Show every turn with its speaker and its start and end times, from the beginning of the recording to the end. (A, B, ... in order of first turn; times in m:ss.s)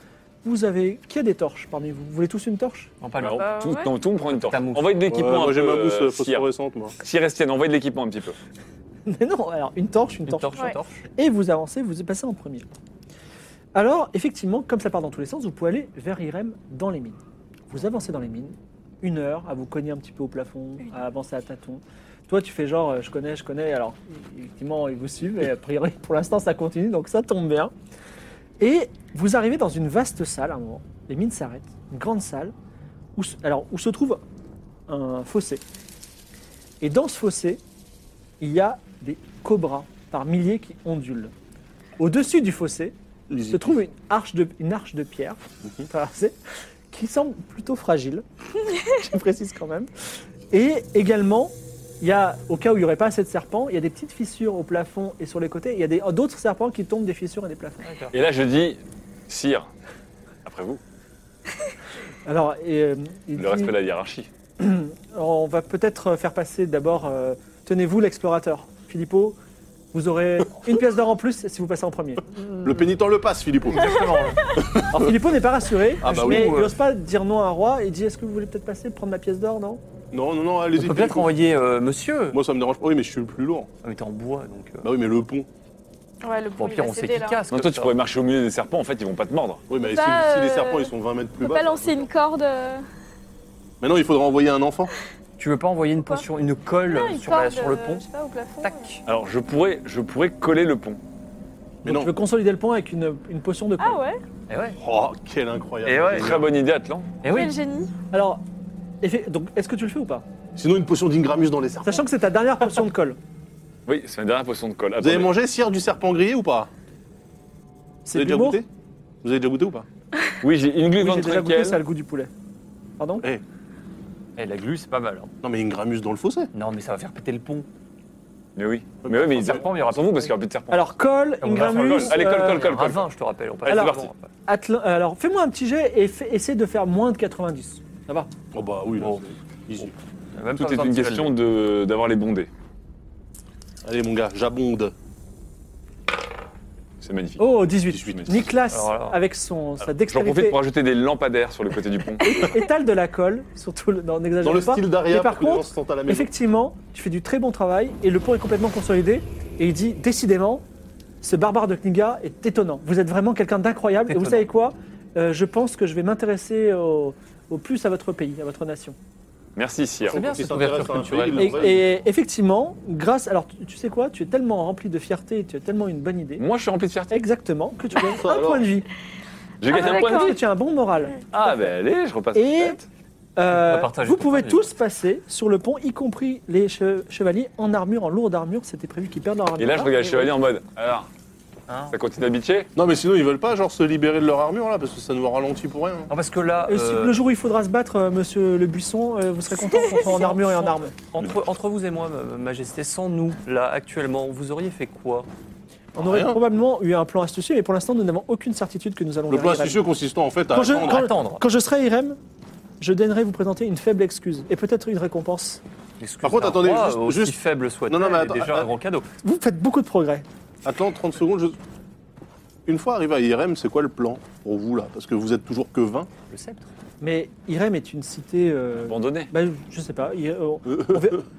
0:00.4-0:02.9 A
0:03.0-0:03.5 B
0:03.2-0:06.5 C
0:03.3-0:03.9 D
0:04.3-0:05.0 B
0:05.1-0:07.0 E
0:07.0-0:08.4 C
0:09.1-0:12.7 A
0:10.3-0:11.0 B
0:13.7-0:17.2 A
0:17.7-0:27.7 A
0:28.6-0:32.5 A
0:33.2-0:34.2 A
0:34.9-0:35.6 A
0:36.8-0:37.6 A
0:38.4-0:41.3 A
0:42.0-0:42.9 A
0:43.3-0:43.8 E
0:43.5-0:46.4 A
0:46.9-0:48.2 A
0:48.8-0:49.9 A
0:50.5-0:57.9 A
0:57.8-0:58.1 B
0:58.1-0:59.7 C
1:00.4-1:00.8 C
1:02.2-1:03.7 A
1:03.3-1:04.3 C
1:04.6-1:09.4 A
1:09.9-1:12.2 A
1:12.6-1:15.1 E
1:13.7-1:14.5 B
1:14.9-1:19.8 A
1:16.0-1:16.7 E
1:16.0-1:16.8 B
1:20.1-1:21.3 E
1:20.7-1:22.4 B
1:22.3-1:23.7 E
1:23.8-1:24.9 B
1:24.8-1:25.5 E
1:26.2-1:27.4 D
1:26.6-1:28.0 B
1:27.5-1:29.6 C
1:29.7-1:32.1 E
1:29.8-1:32.8 D
1:33.8-1:34.9 E
1:35.4-1:38.0 B
1:36.0-1:36.3 D
1:36.8-1:38.9 D
1:38.6-1:39.0 B
1:39.0-1:41.0 C
1:41.8-1:42.1 E
1:41.8-1:44.0 A
1:43.8-1:44.2 D
1:44.5-1:44.8 B
1:44.8-1:46.4 E
1:45.8-1:46.4 B
1:46.2-1:47.1 C
1:47.2-1:47.5 B
1:47.2-1:47.9 D
1:48.1-1:48.4 A
1:49.0-1:50.2 A
1:50.6-1:52.0 E
1:51.8-1:53.2 A
1:53.9-1:55.3 C
1:55.0-1:56.7 E
1:58.0-1:58.6 A
1:58.1-1:58.7 E
1:59.2-1:59.8 E
2:00.4-2:01.8 C
2:01.0-2:02.3 A
2:03.0-2:03.2 A
2:04.4-2:05.3 B
2:05.4-2:06.5 E
2:06.5-2:07.7 B
2:08.6-2:10.9 C
2:09.0-2:09.8 E
2:09.3-2:10.3 B
2:10.7-2:12.8 A
2:11.4-2:14.3 B
2:11.5-2:13.1 C
2:13.6-2:14.1 C
2:13.6-2:18.3 A
2:18.5-2:19.9 E
2:19.9-2:21.4 B
2:20.5-2:22.5 C
2:23.8-2:24.9 E
2:27.0-2:28.3 C
2:27.4-2:30.6 A
2:27.9-2:28.5 E
2:28.7-2:29.2 B
2:30.0-2:32.6 C
2:32.2-2:40.6 A
2:34.4-2:36.3 E
2:41.2-2:49.0 A
2:44.1-2:44.4 B
2:49.6-2:50.2 C
2:50.1-2:51.8 B
2:50.1-2:51.8 E
2:51.4-2:56.4 A
2:56.4-2:57.2 C
2:57.1-2:58.9 A
2:58.0-2:58.6 E
2:59.6-3:00.4 C
2:59.7-3:00.3 D
2:59.7-3:01.7 A
3:01.3-3:02.8 C
3:02.3-3:02.8 A
3:03.4-3:10.3 A
3:03.5-3:04.7 B
3:09.6-3:11.1 C
3:11.7-3:12.0 B
3:11.9-3:12.7 C
3:12.7-3:16.1 E
3:16.1-3:17.2 B
3:16.6-3:20.9 A
3:19.7-3:25.3 B
3:26.0-3:29.8 A
3:26.0-3:26.4 E
3:29.3-3:31.1 E
3:30.5-3:32.2 A
3:30.7-3:31.4 B
3:32.8-3:35.6 A
3:36.0-3:39.1 B
3:36.2-3:38.7 E
3:39.2-3:40.2 A
3:40.6-3:41.6 E
3:42.6-3:46.1 E
3:46.3-3:46.7 B
3:47.0-3:51.2 A
3:48.8-3:49.3 C
3:50.7-3:51.2 E